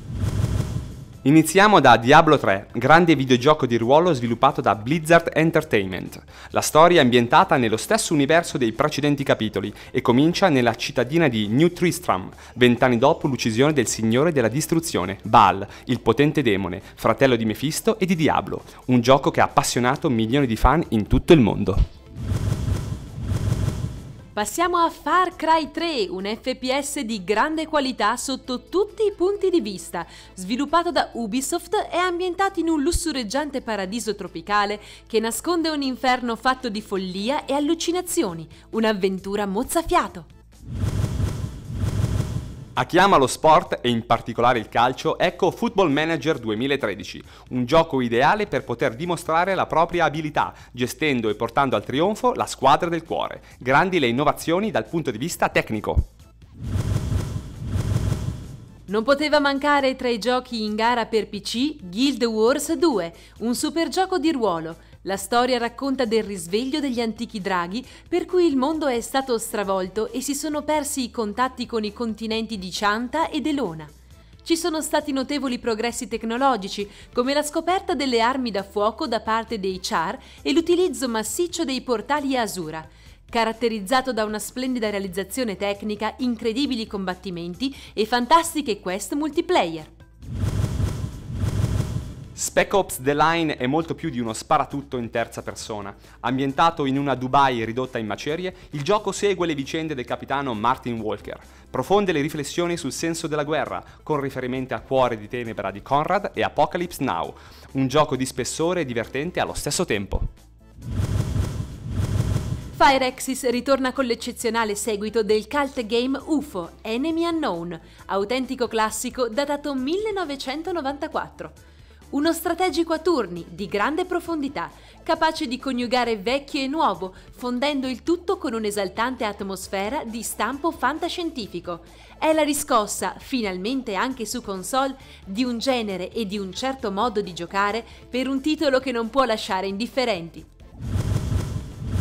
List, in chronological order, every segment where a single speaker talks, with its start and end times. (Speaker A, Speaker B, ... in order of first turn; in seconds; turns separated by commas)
Speaker A: 1.2-21.8, Speaker B: 24.3-40.3, Speaker A: 42.8-56.1, Speaker B: 58.9-73.9, Speaker B: 74.4-89.9, Speaker A: 92.3-110.3, Speaker B: 112.7-121.5, Speaker B: 122.1-140.4